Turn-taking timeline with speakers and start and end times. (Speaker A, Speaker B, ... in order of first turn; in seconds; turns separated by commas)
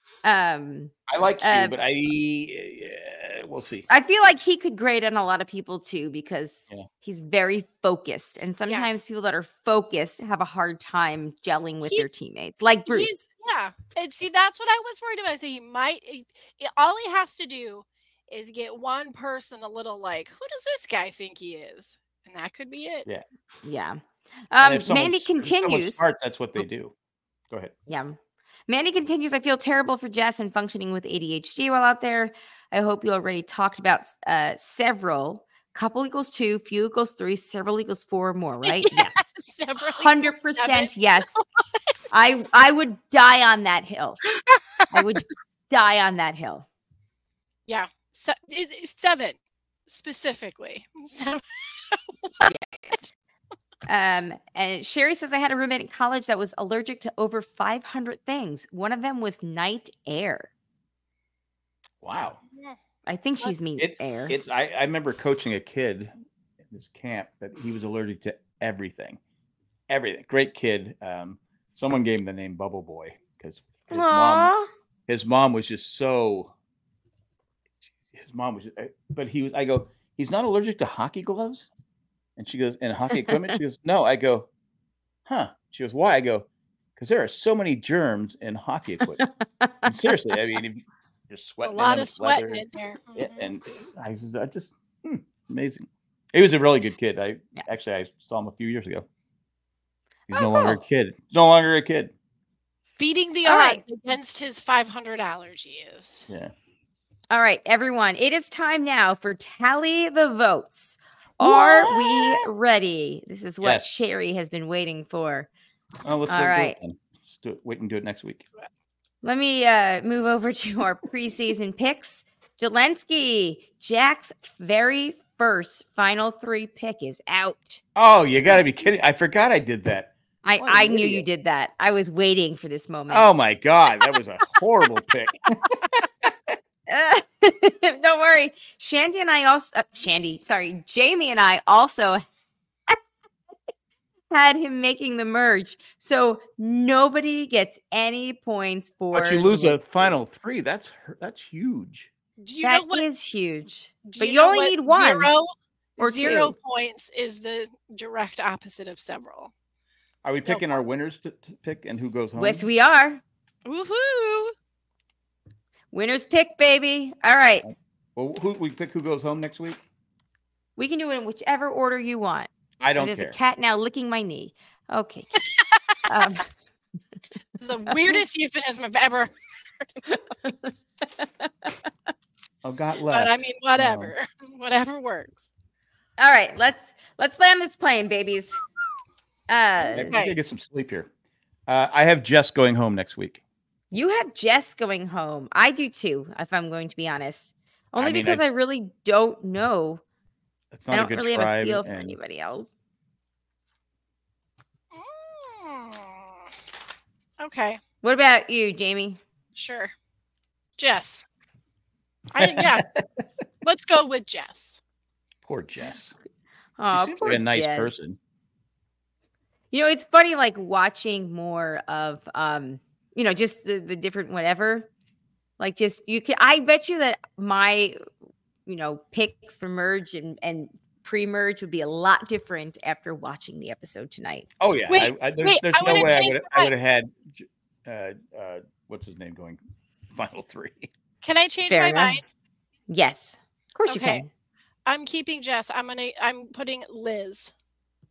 Speaker A: 0.2-1.8, Speaker B: 1.1-3.9, Speaker A: 3.9-13.2, Speaker C: 8.7-8.9, Speaker C: 11.8-12.1, Speaker C: 12.9-23.1, Speaker A: 23.6-26.1, Speaker B: 24.6-26.9, Speaker A: 27.9-28.2, Speaker A: 28.7-39.3, Speaker C: 38.6-41.4, Speaker A: 39.9-41.4, Speaker A: 42.1-44.2, Speaker C: 44.4-44.8, Speaker A: 44.9-46.7, Speaker C: 47.7-49.4, Speaker C: 49.9-52.5, Speaker A: 52.4-53.1, Speaker A: 53.9-60.5, Speaker B: 62.0-62.4, Speaker A: 63.1-64.3, Speaker B: 63.8-66.1, Speaker B: 66.7-69.2, Speaker B: 69.9-74.5, Speaker A: 73.9-74.7, Speaker B: 75.1-76.5, Speaker B: 78.1-81.7, Speaker B: 82.4-84.5, Speaker A: 83.2-83.6, Speaker B: 85.3-89.2, Speaker A: 89.2-89.9, Speaker B: 89.8-92.6, Speaker C: 91.6-93.5, Speaker B: 93.2-99.1, Speaker A: 100.3-100.8, Speaker B: 100.3-102.1, Speaker C: 103.0-106.3, Speaker A: 103.5-103.8, Speaker A: 107.3-115.5, Speaker B: 111.4-112.5, Speaker B: 113.6-114.1, Speaker B: 116.0-118.5, Speaker A: 116.3-116.8, Speaker A: 119.2-127.8, Speaker B: 128.0-131.3, Speaker A: 130.4-133.3, Speaker B: 133.1-136.6, Speaker A: 136.9-142.2, Speaker A: 144.3-150.1, Speaker B: 149.1-152.1, Speaker C: 152.4-153.1, Speaker A: 152.6-155.3, Speaker C: 154.1-159.5, Speaker A: 156.0-156.6, Speaker B: 160.2-162.7, Speaker C: 160.5-160.8, Speaker A: 162.4-163.2, Speaker C: 163.7-164.5, Speaker A: 165.9-167.7, Speaker B: 167.6-169.8, Speaker A: 170.8-175.4, Speaker B: 172.8-173.4, Speaker A: 176.1-176.4, Speaker C: 177.6-180.2, Speaker A: 180.4-181.4, Speaker B: 182.6-184.1, Speaker C: 183.1-185.5, Speaker A: 186.2-188.6, Speaker A: 189.5-190.2, Speaker B: 189.8-191.1, Speaker C: 190.1-190.3, Speaker B: 191.7-193.4, Speaker A: 193.9-200.0, Speaker B: 198.0-198.5, Speaker B: 200.7-202.2, Speaker A: 200.9-202.7, Speaker C: 204.9-206.4, Speaker C: 207.4-207.8, Speaker A: 208.0-209.2, Speaker C: 209.6-209.9, Speaker C: 210.8-211.2, Speaker C: 212.3-212.9, Speaker B: 212.4-213.0, Speaker C: 213.6-214.8, Speaker B: 215.4-216.2, Speaker A: 216.8-217.9, Speaker B: 216.9-218.2, Speaker A: 219.7-224.9, Speaker A: 225.6-228.0, Speaker A: 228.7-234.5, Speaker B: 234.6-239.6, Speaker C: 234.9-236.7, Speaker B: 240.1-240.9, Speaker C: 241.2-242.2, Speaker A: 241.7-242.2, Speaker A: 242.9-244.3, Speaker C: 243.9-244.2, Speaker C: 244.9-247.5